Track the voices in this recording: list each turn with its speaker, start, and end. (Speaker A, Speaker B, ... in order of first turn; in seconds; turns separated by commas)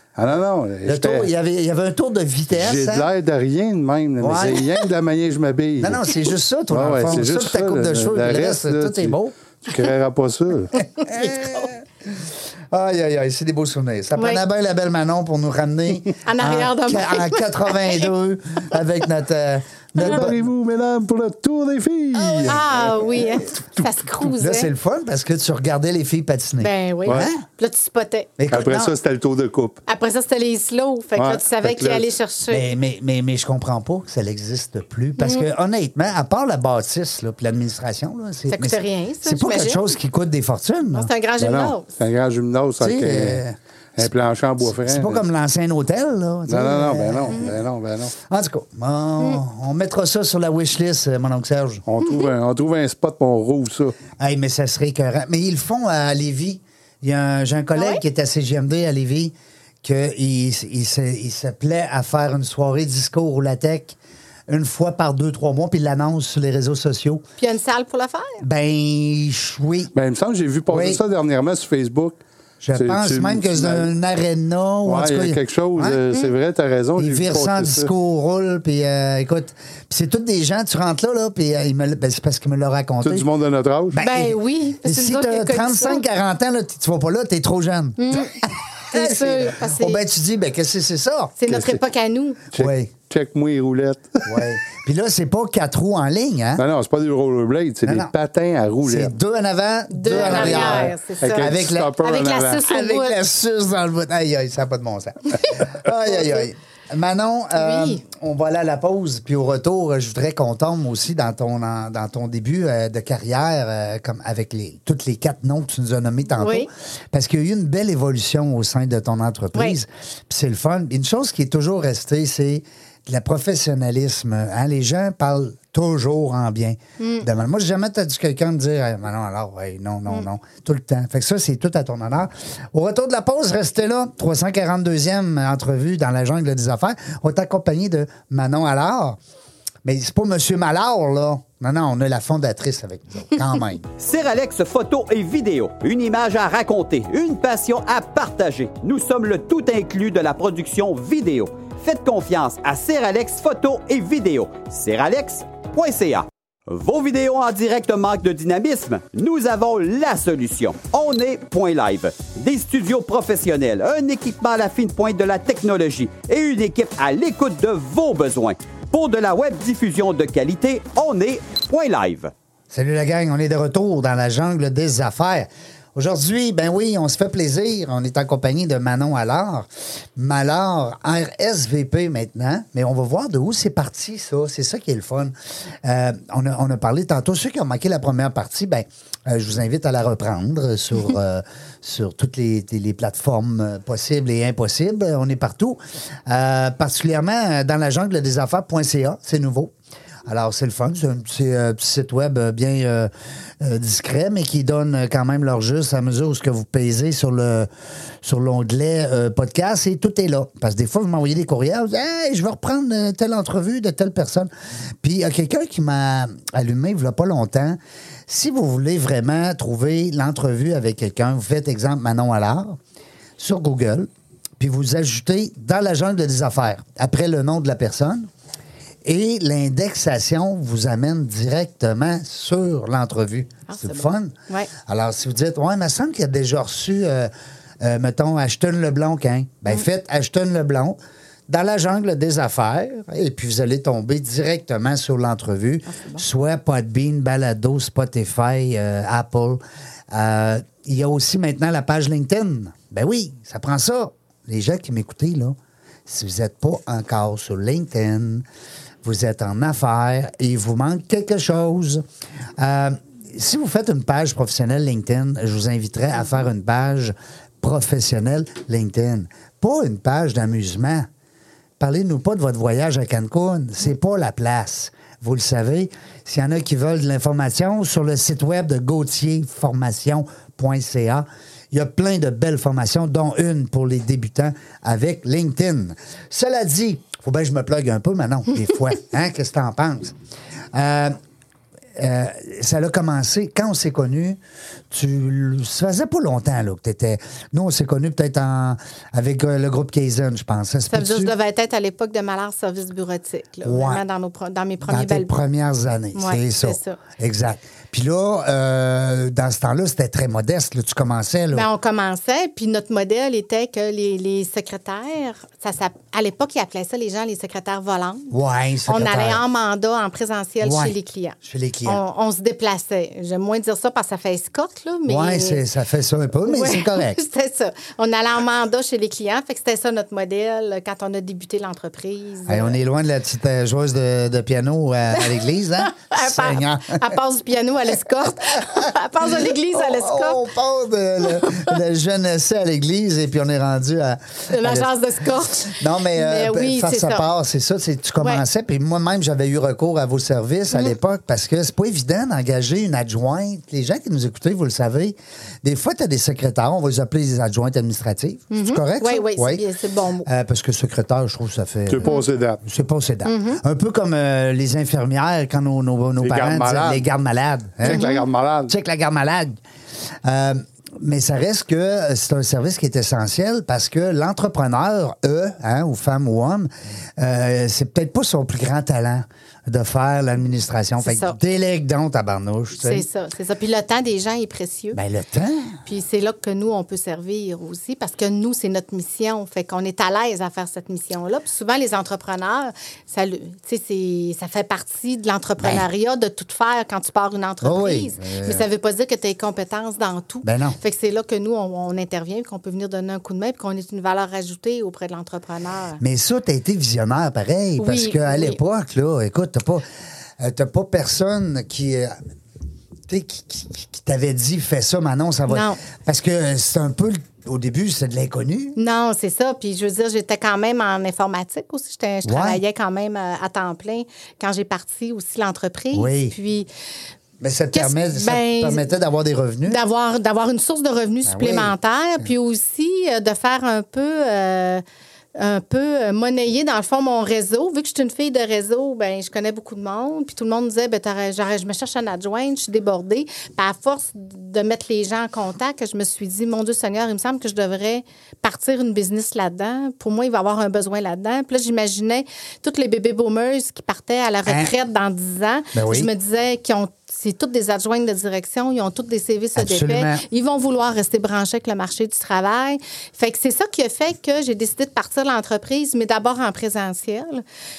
Speaker A: 0.1-1.3, Speaker B: 0.8-3.1, Speaker A: 2.5-6.1, Speaker B: 4.2-4.7, Speaker B: 5.8-9.3, Speaker A: 6.7-10.8, Speaker C: 11.0-11.7, Speaker B: 11.0-20.4, Speaker C: 14.2-14.4, Speaker C: 16.2-18.1, Speaker A: 20.0-23.2, Speaker C: 22.1-24.7, Speaker B: 22.4-22.9, Speaker B: 24.4-27.4, Speaker C: 26.6-28.3, Speaker B: 28.4-28.9, Speaker A: 28.5-29.8, Speaker C: 29.9-32.7, Speaker A: 31.2-32.1, Speaker B: 32.5-41.1, Speaker C: 35.2-35.5, Speaker C: 38.5-39.8, Speaker C: 40.9-41.9, Speaker A: 41.4-43.4, Speaker B: 42.8-44.1, Speaker A: 44.0-45.2, Speaker B: 44.6-47.6, Speaker A: 46.5-48.1, Speaker B: 48.2-51.8, Speaker A: 51.9-54.0, Speaker C: 52.0-52.3, Speaker B: 54.2-64.0, Speaker C: 57.8-58.0, Speaker B: 64.5-67.2, Speaker C: 67.4-68.4, Speaker B: 68.4-69.9, Speaker A: 69.9-72.2, Speaker B: 70.7-71.0, Speaker B: 72.6-76.0, Speaker A: 72.7-73.9, Speaker A: 74.8-77.9, Speaker B: 77.0-83.3, Speaker A: 83.0-84.0, Speaker B: 83.9-91.4, Speaker C: 84.0-86.0, Speaker C: 88.0-90.0, Speaker C: 91.4-92.4, Speaker A: 91.5-91.8, Speaker A: 92.5-94.4, Speaker B: 92.5-92.9, Speaker B: 94.2-96.6, Speaker A: 96.6-99.1, Speaker B: 97.8-98.1, Speaker B: 98.8-102.0, Speaker C: 99.9-103.2, Speaker A: 100.1-102.6, Speaker B: 102.5-139.2, Speaker C: 106.1-106.4, Speaker C: 107.5-108.0, Speaker C: 116.4-116.7, Speaker C: 127.0-127.3, Speaker B: 139.8-143.8, Speaker D: 144.0-172.3, Speaker B: 172.7-199.7, Speaker B: 200.2-207.7, Speaker B: 208.2-214.5, Speaker B: 215.0-222.8, Speaker B: 223.4-228.3, Speaker B: 229.0-241.0, Speaker C: 233.7-234.7, Speaker B: 241.5-258.4, Speaker C: 245.9-246.2, Speaker B: 259.0-262.0, Speaker B: 262.6-271.1, Speaker B: 271.8-290.1, Speaker B: 290.7-291.1, Speaker B: 291.9-294.4, Speaker B: 294.9-301.3, Speaker C: 300.9-305.3, Speaker B: 303.6-304.0, Speaker B: 304.8-311.7, Speaker C: 306.1-307.0, Speaker C: 311.5-318.3, Speaker B: 318.3-319.4, Speaker C: 318.9-325.6, Speaker B: 320.6-322.0, Speaker B: 325.1-327.2, Speaker C: 326.4-332.8, Speaker B: 332.5-337.1, Speaker C: 335.1-340.4, Speaker B: 338.5-344.9, Speaker C: 341.4-341.7, Speaker C: 344.5-347.3, Speaker B: 345.6-359.6, Speaker C: 358.5-360.3, Speaker B: 360.2-368.1, Speaker A: 361.9-362.6, Speaker C: 363.2-363.6, Speaker A: 366.2-367.0, Speaker A: 367.8-368.7, Speaker C: 367.9-368.2, Speaker B: 368.6-369.5, Speaker B: 370.2-383.1, Speaker C: 381.0-381.4, Speaker C: 382.8-385.0, Speaker B: 384.9-385.8, Speaker C: 385.9-406.0, Speaker B: 395.6-395.8, Speaker B: 397.6-398.7, Speaker B: 400.4-400.8, Speaker B: 406.0-409.8, Speaker C: 407.8-408.6, Speaker B: 410.4-412.2, Speaker B: 413.1-418.8, Speaker C: 415.5-415.8, Speaker C: 418.8-426.7, Speaker B: 422.2-422.6, Speaker B: 425.9-426.3, Speaker B: 427.4-429.8, Speaker C: 427.7-428.9, Speaker C: 429.6-434.8, Speaker B: 431.2-432.3, Speaker C: 435.3-467.4, Speaker B: 454.4-454.7, Speaker B: 455.7-456.1, Speaker B: 459.6-460.2